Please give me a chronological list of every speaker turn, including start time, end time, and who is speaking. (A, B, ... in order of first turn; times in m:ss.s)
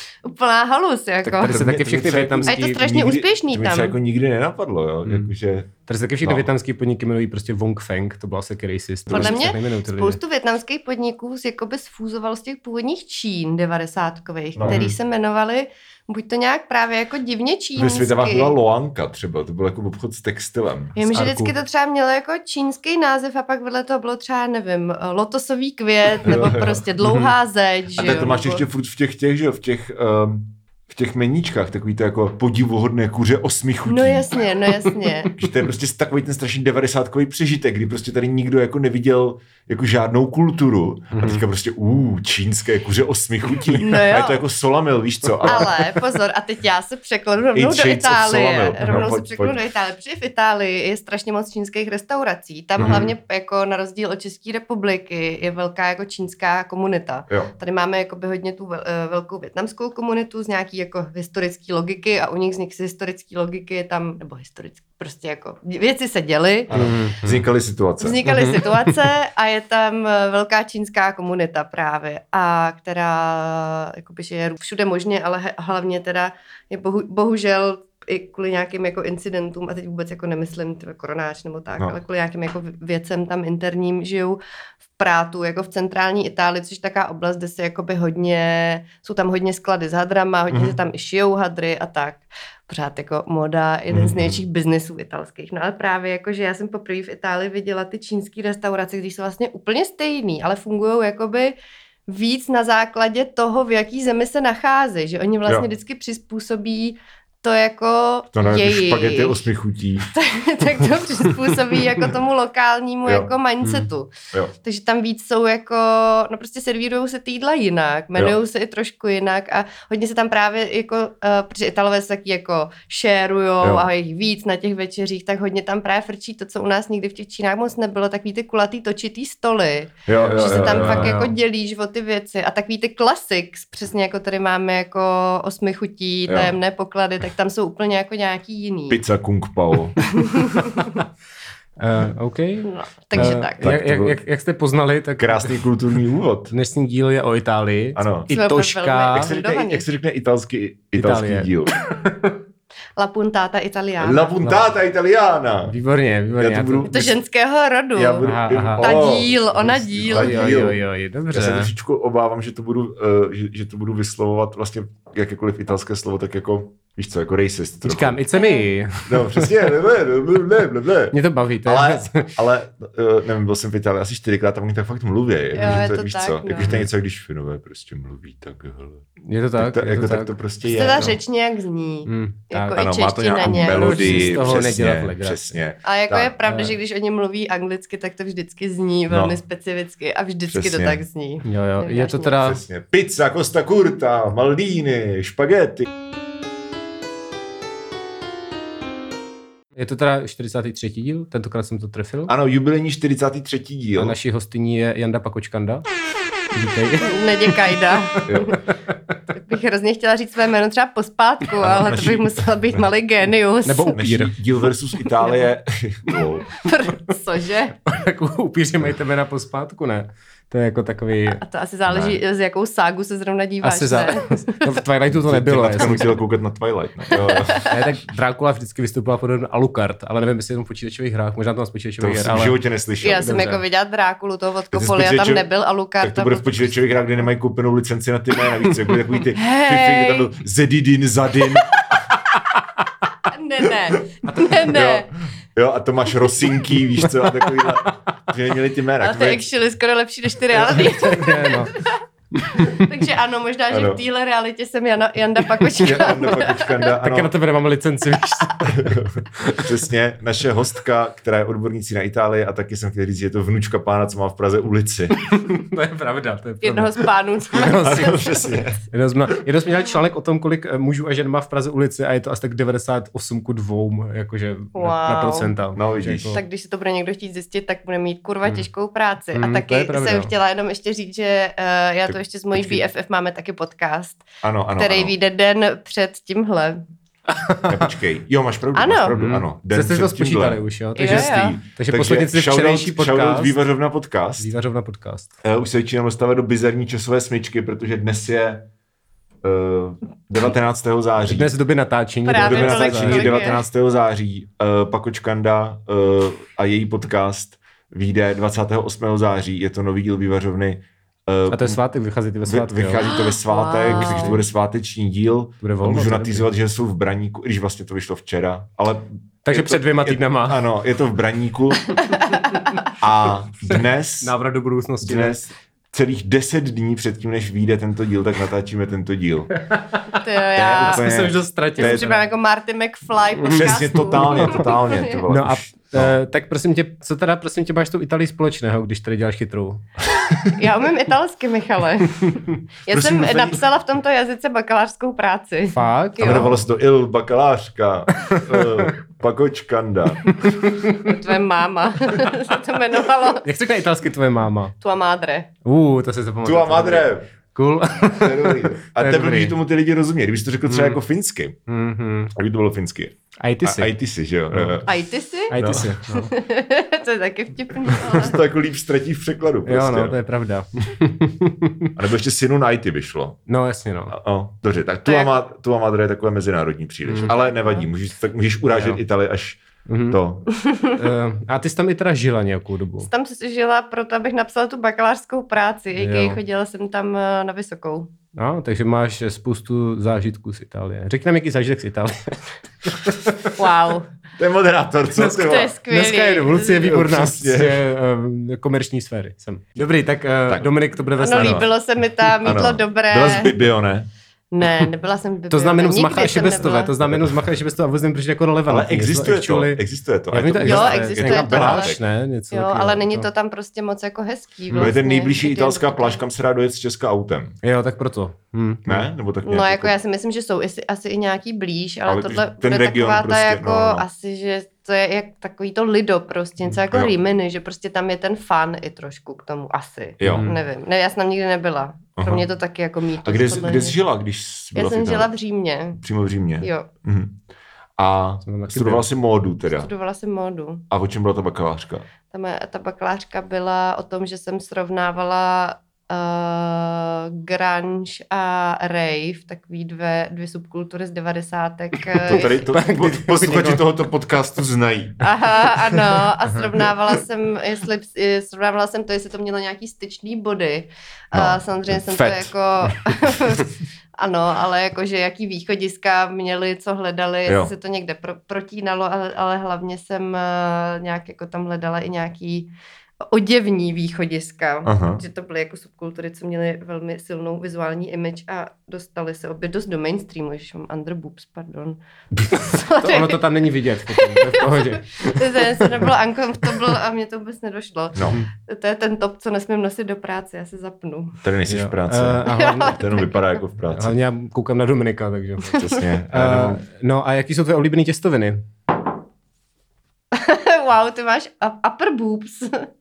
0:00.2-0:01.6 A
0:01.2-0:02.9 B
0:01.5-0:06.5 C
0:02.5-0:04.0 A
0:05.1-0:05.3 B
0:05.9-0:10.2 B
0:09.1-0:09.5 C
0:09.1-0:18.6 A
0:14.6-0:14.9 C
0:14.6-0:14.9 B
0:17.8-0:21.0 C
0:21.0-0:28.6 A
0:21.1-0:21.5 B
0:26.2-0:26.8 C
0:27.0-0:27.3 B
0:28.0-0:34.3 C
0:33.9-0:35.3 A
0:35.4-0:45.7 C
0:41.1-0:41.4 B
0:43.8-0:44.4 A
0:45.4-0:45.8 B
0:45.5-1:06.8 A
0:47.6-0:49.6 C
0:52.8-0:53.1 C
0:52.8-0:53.1 B
1:06.7-1:08.2 C
1:06.7-1:07.5 B
1:08.0-1:24.4 A
1:08.3-1:09.0 B
1:25.0-1:41.6 A
1:30.5-1:30.8 C
1:33.9-1:34.4 C
1:42.1-1:49.5 A
1:48.3-1:50.1 C
1:50.1-2:19.0 A
1:53.1-1:53.3 C
1:53.6-1:53.9 B
2:03.6-2:03.9 C
2:10.1-2:11.2 C
2:10.2-2:11.3 B
2:16.3-2:16.6 C
2:18.9-2:20.0 C
2:20.0-2:21.0 A
2:21.8-2:25.6 B
2:22.6-2:23.8 A
2:23.1-2:24.2 C
2:25.2-2:26.5 C
2:26.5-2:29.3 B
2:28.0-2:28.3 C
2:28.3-2:29.8 A
2:29.1-2:31.7 C
2:31.0-2:32.4 B
2:33.0-2:34.3 A
2:34.0-2:35.8 C
2:34.4-2:34.7 B
2:35.7-2:37.0 B
2:36.4-2:37.2 C
2:36.9-2:40.6 A
2:38.0-2:40.8 C
2:38.2-2:38.9 B
2:40.1-2:41.7 B
2:41.3-2:48.2 C
2:47.8-2:49.6 B
2:48.3-2:48.7 A
2:49.0-3:01.2 C
2:51.1-2:52.3 B
2:55.6-2:56.8 A
2:55.6-2:55.9 B
2:56.6-2:56.8 B
2:59.2-3:00.4 B
3:00.7-3:04.7 A
3:02.1-3:02.9 B
3:02.8-3:06.3 C
3:03.4-3:05.6 B
3:05.8-3:12.4 A
3:06.5-3:06.8 B
3:09.1-3:09.4 C
3:10.5-3:11.0 C
3:11.4-3:12.6 B
3:12.4-3:15.9 C
3:19.8-3:22.3 B
3:22.3-3:24.2 C
3:24.0-3:25.8 B
3:26.5-3:27.6 B
3:27.0-3:28.6 A
3:28.3-3:28.6 C
3:29.3-3:34.0 A
3:31.6-3:32.8 C
3:33.7-3:34.3 B
3:34.0-3:36.5 C
3:35.2-3:35.5 A
3:36.6-3:37.8 A
3:37.9-3:41.4 B
3:41.4-3:44.8 A
3:41.9-3:42.2 C
3:43.6-3:46.2 B
3:45.1-3:47.7 C
3:47.1-3:47.8 A
3:47.6-3:52.6 B
3:52.0-3:53.3 C
3:53.0-3:56.8 A
3:53.2-3:53.6 B
3:54.7-3:55.5 C
3:56.0-4:02.0 C
3:59.4-4:00.3 A
4:03.2-4:05.1 A
4:04.3-4:09.5 C
4:07.0-4:07.8 B
4:09.0-4:16.9 A
4:10.6-4:11.8 B
4:12.3-4:12.8 B
4:13.7-4:14.0 C
4:15.7-4:18.9 B
4:15.8-4:17.3 C
4:18.6-4:25.2 C
4:25.3-4:28.3 B
4:26.6-4:28.4 A
4:27.7-4:28.8 C
4:28.9-4:36.4 B
4:34.8-4:35.5 A
4:35.8-4:36.4 C
4:36.3-4:46.8 A
4:39.3-4:40.3 B
4:42.1-4:42.8 C
4:44.4-4:45.1 C
4:47.3-4:47.8 B
4:47.7-4:54.5 C
4:48.8-4:49.2 A
4:49.1-4:53.6 B
4:51.0-4:51.6 A
4:54.4-4:55.3 B
4:55.4-4:58.7 C
4:59.4-5:01.5 C
5:01.3-5:03.5 B
5:02.2-5:03.6 A
5:02.3-5:11.8 C
5:11.5-5:13.0 B
5:12.5-5:22.0 C
5:13.0-5:14.4 A
5:13.8-5:14.4 B
5:15.6-5:16.5 B
5:19.4-5:20.7 B
5:22.0-5:22.8 A
5:22.9-5:24.4 C
5:23.7-5:25.4 B
5:25.0-5:29.5 C
5:29.6-5:32.2 B
5:30.2-5:31.1 A
5:30.6-5:32.1 C
5:31.8-5:35.2 A
5:33.4-5:34.7 B
5:33.5-5:36.2 C
5:35.3-5:40.5 B
5:40.5-5:46.5 A
5:42.9-5:43.6 C
5:45.7-5:46.6 B
5:46.2-5:50.3 C
5:48.2-5:48.9 B
5:50.2-5:51.2 B
5:51.0-5:53.5 A
5:53.4-5:54.8 B
5:54.8-5:55.5 A
5:55.6-5:59.6 B
5:56.4-5:57.3 C
5:58.1-6:01.6 C
6:00.7-6:01.0 B
6:01.7-6:02.4 B
6:02.4-6:05.0 C
6:03.4-6:03.9 B
6:04.5-6:04.8 B
6:04.9-6:05.6 A
6:05.5-6:06.4 B
6:05.5-6:06.0 C
6:06.1-6:08.4 A
6:07.9-6:10.2 C
6:09.7-6:11.9 B
6:12.0-6:13.4 C
6:13.5-6:14.2 B
6:14.1-6:20.5 C
6:15.1-6:15.3 A
6:17.4-6:17.9 A
6:18.7-6:19.0 B
6:19.9-6:20.2 B
6:20.5-6:21.0 A
6:20.9-6:23.1 B
6:23.0-6:28.1 A
6:26.0-6:26.4 B
6:28.4-6:33.5 B
6:33.6-6:34.1 A
6:34.4-6:35.7 C
6:35.2-6:37.0 A
6:35.2-6:41.7 B
6:36.8-6:37.8 C
6:41.2-6:43.6 A
6:41.3-6:41.7 C
6:42.4-6:44.1 C
6:44.5-6:46.9 A
6:45.5-6:53.3 B
6:47.0-6:47.4 C
6:48.7-6:52.0 C
6:50.6-6:52.0 A
6:52.5-6:56.2 A
6:54.7-6:57.6 C
6:57.6-6:59.1 B
6:58.9-6:59.9 C
6:59.4-7:14.0 A
7:02.1-7:04.0 C
7:06.6-7:07.1 C
7:10.2-7:10.5 C
7:10.2-7:10.6 B
7:12.2-7:12.4 C
7:13.2-7:15.3 C
7:14.8-7:16.0 A
7:16.0-7:17.4 C
7:16.6-7:16.9 A
7:18.0-7:19.9 C
7:18.4-7:19.0 B
7:19.7-7:20.8 A
7:20.9-7:22.1 C
7:22.3-7:32.7 A
7:32.0-7:34.0 B
7:32.2-7:35.2 C
7:35.2-7:52.7 A
7:36.2-7:36.7 B
7:41.3-7:42.4 C
7:47.5-7:47.7 C
7:53.3-8:03.4 A
7:54.8-7:55.2 C
8:02.4-8:02.7 C
8:03.0-8:06.0 B
8:04.1-8:11.4 A
8:08.1-8:08.4 C
8:08.2-8:08.5 B
8:11.4-8:14.2 C
8:11.7-8:13.1 B
8:12.5-8:13.3 A
8:13.9-8:18.6 B
8:15.7-8:16.0 A
8:15.8-8:16.8 C
8:20.3-8:22.9 A